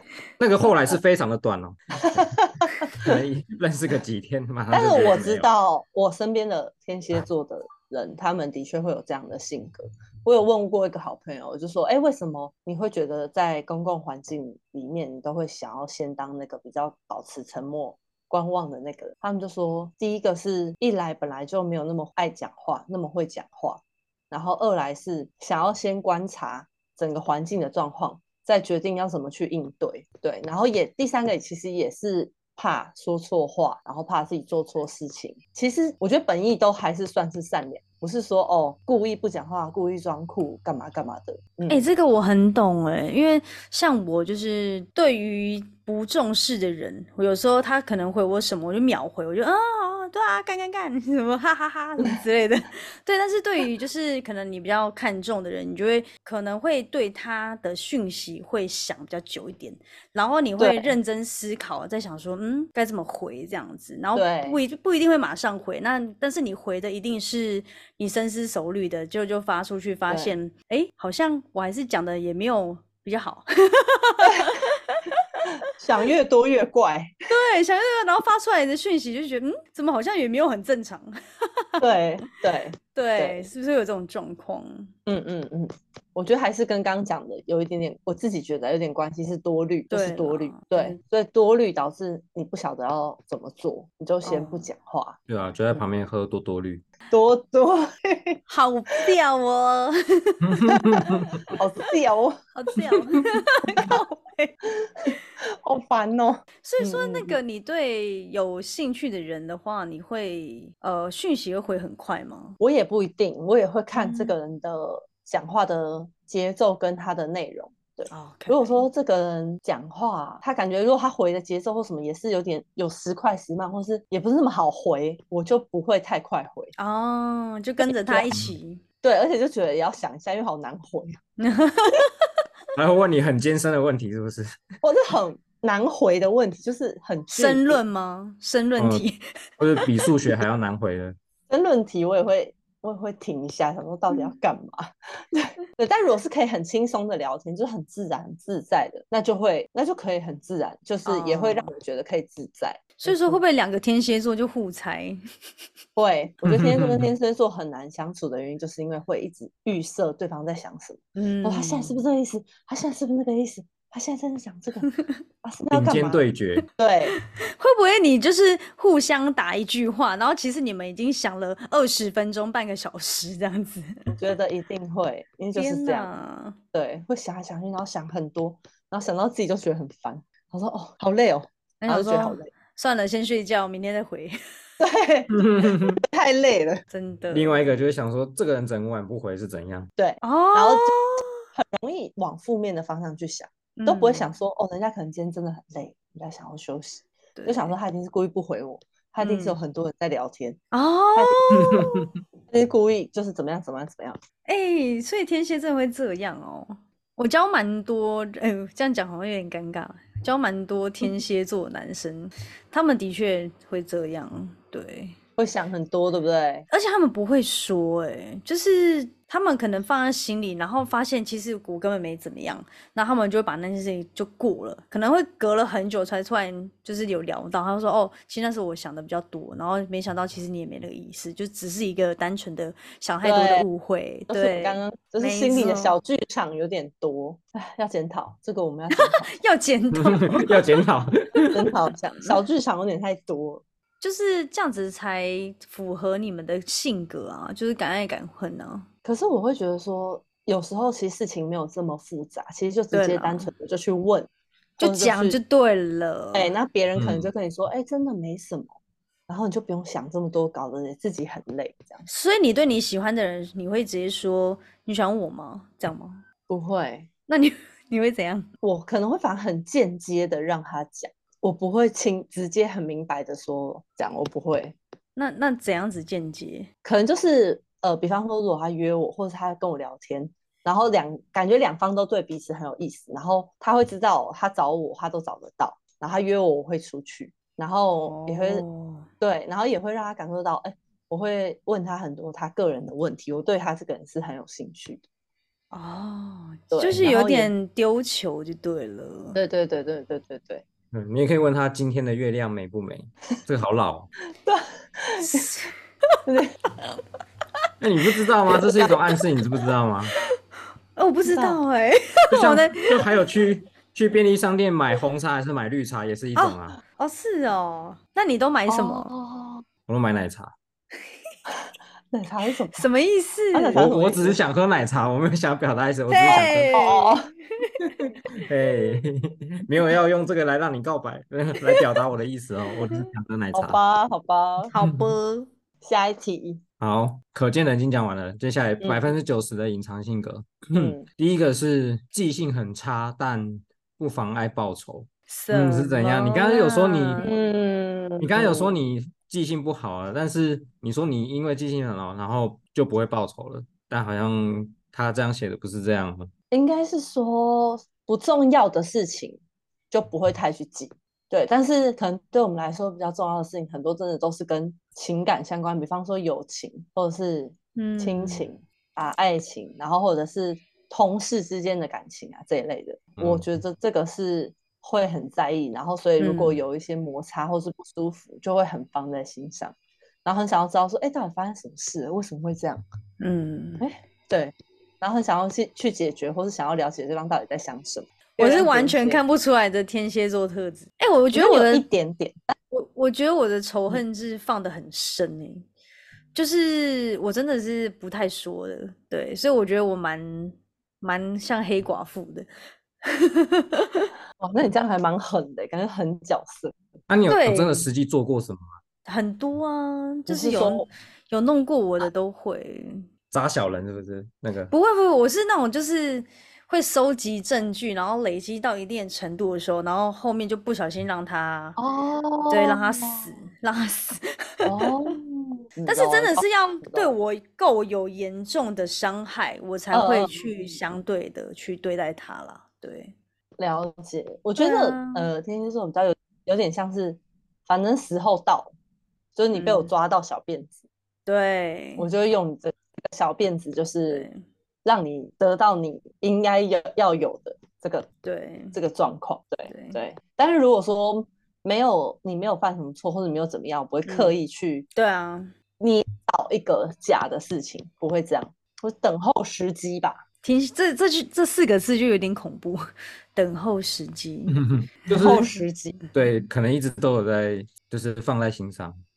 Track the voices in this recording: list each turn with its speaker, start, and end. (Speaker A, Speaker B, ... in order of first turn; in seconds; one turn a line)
Speaker A: 0.4-2.3
Speaker B: 2.1-3.1
Speaker A: 2.9-5.5
Speaker B: 4.7-41.8
Speaker C: 41.7-75.5
Speaker B: 60.6-60.9
Speaker B: 64.1-64.6
Speaker B: 70.1-70.3
Speaker B: 74.2-74.5
Speaker B: 75.7-77.1
Speaker C: 77.3-81.8
Speaker B: 81.8-83.5
Speaker C: 82.9-84.9
Speaker B: 85.0-95.2
Speaker C: 89.9-91.0
Speaker C: 94.2-94.7
Speaker A: 95.3-96.8
Speaker B: 97.1-98.4
Speaker C: 98.5-100.8
Speaker A: 100.4-101.4
Speaker B: 100.7-102.4
Speaker C: 102.5-104.5
Speaker B: 104.8-107.4
Speaker C: 106.6-112.6
Speaker B: 112.6-126.7
Speaker C: 113.9-114.3
Speaker C: 118.1-118.8
Speaker C: 126.8-128.8
Speaker B: 127.8-128.3
Speaker B: 129.0-131.2
Speaker C: 131.4-132.1
Speaker A: 132.7-134.5
Speaker B: 134.8-137.8
Speaker C: 137.3-139.2
Speaker A: 138.8-139.0
Speaker A: 139.6-141.2
Speaker B: 141.5-153.4
Speaker C: 151.0-151.7
Speaker C: 153.0-155.2
Speaker B: 155.9-164.9
Speaker A: 156.4-157.1
Speaker C: 161.2-162.0
Speaker B: 165.4-166.2
Speaker A: 165.7-166.7
Speaker B: 166.8-167.2
Speaker C: 167.6-174.1
Speaker B: 174.2-176.1
Speaker C: 175.5-176.6
Speaker B: 176.7-182.5
Speaker C: 181.8-184.4
Speaker B: 184.8-186.8
Speaker A: 185.3-186.0
Speaker C: 186.9-187.6
Speaker A: 187.3-189.9
Speaker B: 190.0-190.9
Speaker C: 190.2-191.3
Speaker B: 191.5-200.6
Speaker C: 193.8-194.2
Speaker C: 197.3-197.7
Speaker C: 199.2-199.6
Speaker C: 200.7-202.1
Speaker B: 201.1-201.4
Speaker A: 201.5-202.0
Speaker B: 202.5-204.2
Speaker C: 204.4-215.2
Speaker B: 215.4-216.7
Speaker C: 216.7-236.0
Speaker B: 233.2-233.7
Speaker B: 234.3-239.3
Speaker C: 238.9-240.8
Speaker A: 239.9-241.7
Speaker B: 241.5-243.6
Speaker C: 244.0-248.9
Speaker B: 249.0-255.4
Speaker C: 252.9-253.5
Speaker C: 254.8-256.5
Speaker B: 256.3-258.7
Speaker A: 256.9-257.3
Speaker B: 259.3-262.0
Speaker C: 262.1-266.2
Speaker B: 266.5-267.1
Speaker C: 267.3-268.5
Speaker B: 268.6-274.8
Speaker C: 275.1-276.7
Speaker B: 276.8-288.6
Speaker C: 288.1-289.1
Speaker B: 289.2-295.0
Speaker C: 295.7-299.4
Speaker B: 296.7-297.5
Speaker B: 299.3-300.6
Speaker A: 300.9-304.1
Speaker B: 304.4-305.5
Speaker C: 305.2-305.7
Speaker B: 306.2-306.5
Speaker A: 307.8-310.1
Speaker B: 308.5-308.9
Speaker C: 310.9-313.0
Speaker B: 311.3-311.6
Speaker A: 312.3-316.8
Speaker C: 316.4-319.1
Speaker B: 318.7-319.6
Speaker A: 319.9-320.5
Speaker B: 322.1-322.9
Speaker C: 322.7-323.8
Speaker B: 323.5-324.4
Speaker A: 323.8-326.8
Speaker C: 326.1-327.7
Speaker B: 326.7-327.3
Speaker A: 328.3-333.8
Speaker B: 333.5-334.7
Speaker C: 334.7-335.5
Speaker A: 334.8-335.1
Speaker B: 335.8-336.6
Speaker A: 336.8-347.2
Speaker B: 338.8-339.1
Speaker B: 340.7-341.0
Speaker C: 345.3-347.4
Speaker B: 347.2-348.7
Speaker A: 348.2-356.3
Speaker B: 356.5-359.4
Speaker B: 359.9-382.8
Speaker C: 367.8-368.4
Speaker A: 373.2-373.4
Speaker C: 376.2-376.6
Speaker C: 383.2-383.8
Speaker B: 383.8-389.2
Speaker C: 388.4-391.8
Speaker B: 391.3-392.3
Speaker C: 392.7-395.7
Speaker C: 396.3-402.5
Speaker C: 403.0-404.1
Speaker B: 404.4-406.7
Speaker A: 407.1-408.8
Speaker C: 407.3-407.9
Speaker C: 409.1-413.1
Speaker B: 410.3-410.9
Speaker A: 413.3-414.7
Speaker C: 414.7-421.8
Speaker B: 421.8-423.3
Speaker C: 422.5-425.1
Speaker B: 424.6-427.1
Speaker C: 425.9-433.1
Speaker B: 429.9-430.5
Speaker B: 433.6-438.7
Speaker C: 434.6-435.3
Speaker B: 439.4-440.8
Speaker C: 439.5-439.9
Speaker C: 441.2-442.1
Speaker B: 442.0-444.2
Speaker C: 444.1-444.4
Speaker B: 444.8-448.1
Speaker C: 448.2-448.8
Speaker B: 448.7-454.9
Speaker C: 449.7-450.0
Speaker C: 454.0-454.3
Speaker C: 454.9-455.5
Speaker B: 455.8-460.2
Speaker C: 460.4-462.8
Speaker C: 463.3-464.6
Speaker A: 464.5-465.5
Speaker B: 465.1-466.0
Speaker A: 466.1-469.0